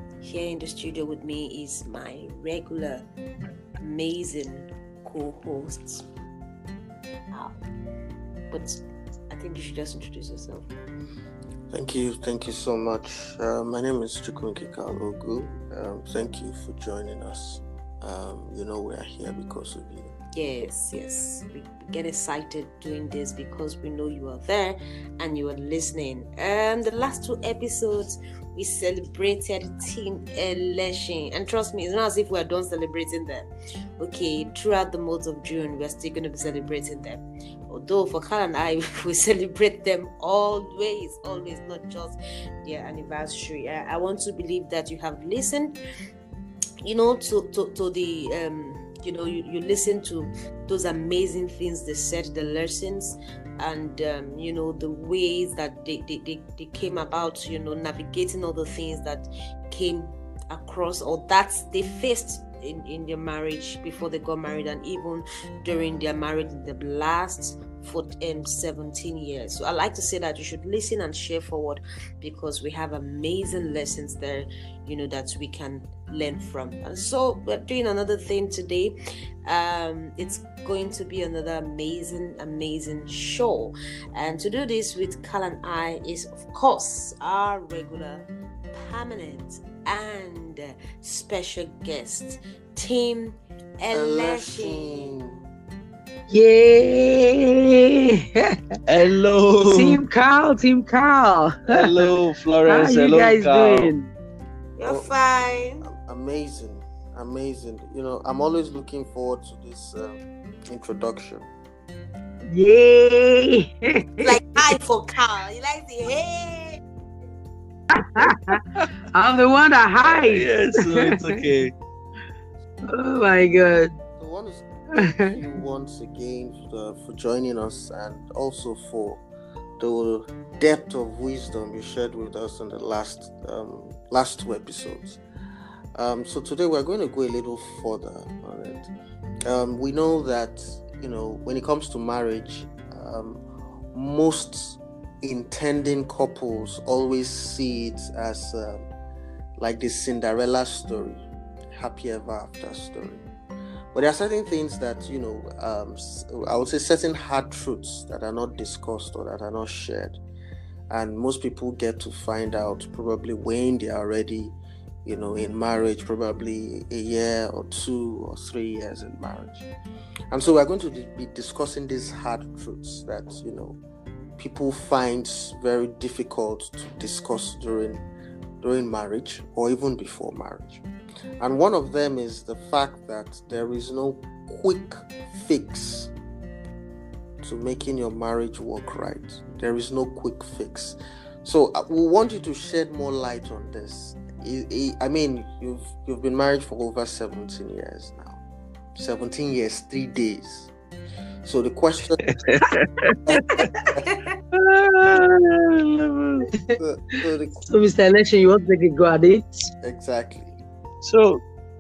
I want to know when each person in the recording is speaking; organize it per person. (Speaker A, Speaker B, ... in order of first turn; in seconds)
Speaker A: 0.2-3.1, 3.8-6.0, 8.5-10.7, 20.4-33.5, 34.0-45.8, 46.9-78.9, 79.5-95.1, 104.8-105.8, 114.2-116.8
Speaker B: 11.7-20.1, 93.9-95.4, 104.8-105.1, 105.8-111.5, 124.2-129.2, 129.8-135.2, 136.0-138.9, 139.5-143.4, 143.9-148.9, 149.6-153.2, 153.9-160.2, 160.9-169.7, 170.3-173.8, 174.4-178.0, 178.6-180.8, 181.4-186.1, 187.4-198.4, 199.0-200.7, 201.4-202.2, 203.3-204.0, 206.8-207.6, 209.8-210.6
Speaker C: 96.3-98.6, 99.7-102.0, 102.7-104.1, 112.5-114.6, 118.0-121.3, 122.9-123.9, 125.0-125.3, 206.5-206.8, 207.7-209.7
Speaker D: 98.9-100.0, 101.7-103.9, 120.0-121.7, 202.3-203.6, 204.5-206.4, 211.0-211.4